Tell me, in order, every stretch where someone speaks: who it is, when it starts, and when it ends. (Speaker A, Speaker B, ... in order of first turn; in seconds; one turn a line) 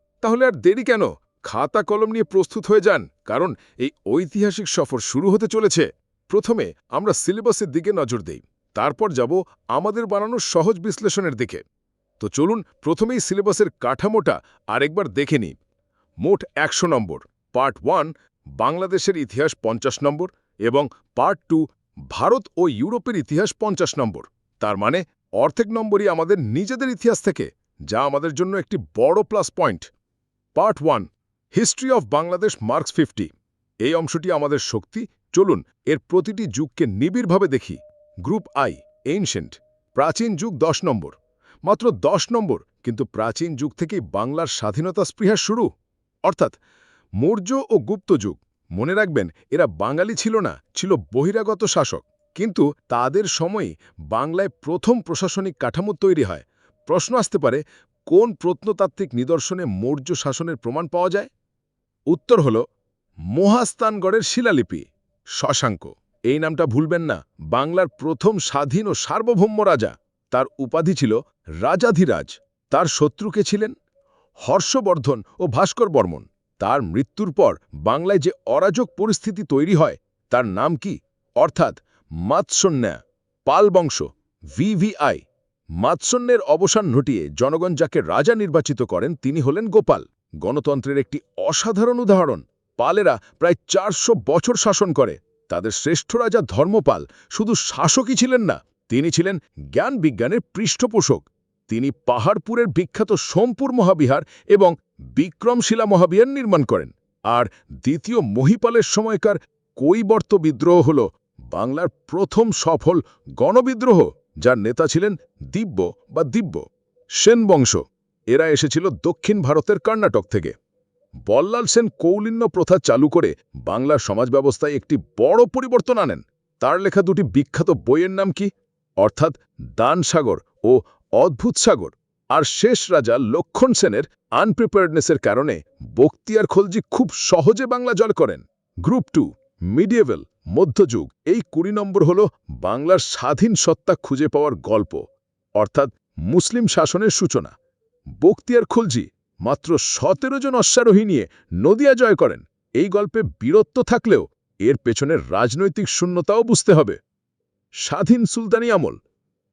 Speaker A: 0.2-11.6
Speaker A: 12.2-15.6
Speaker A: 16.2-29.9
Speaker A: 30.5-33.3
Speaker A: 33.8-45.7
Speaker A: 46.2-46.6
Speaker A: 47.2-61.3
Speaker A: 62.1-62.6
Speaker A: 63.3-73.7
Speaker A: 74.4-85.2
Speaker A: 85.8-120.5
Speaker A: 121.3-145.0
Speaker A: 145.6-147.5
Speaker A: 148.2-157.0
Speaker A: 157.8-159.0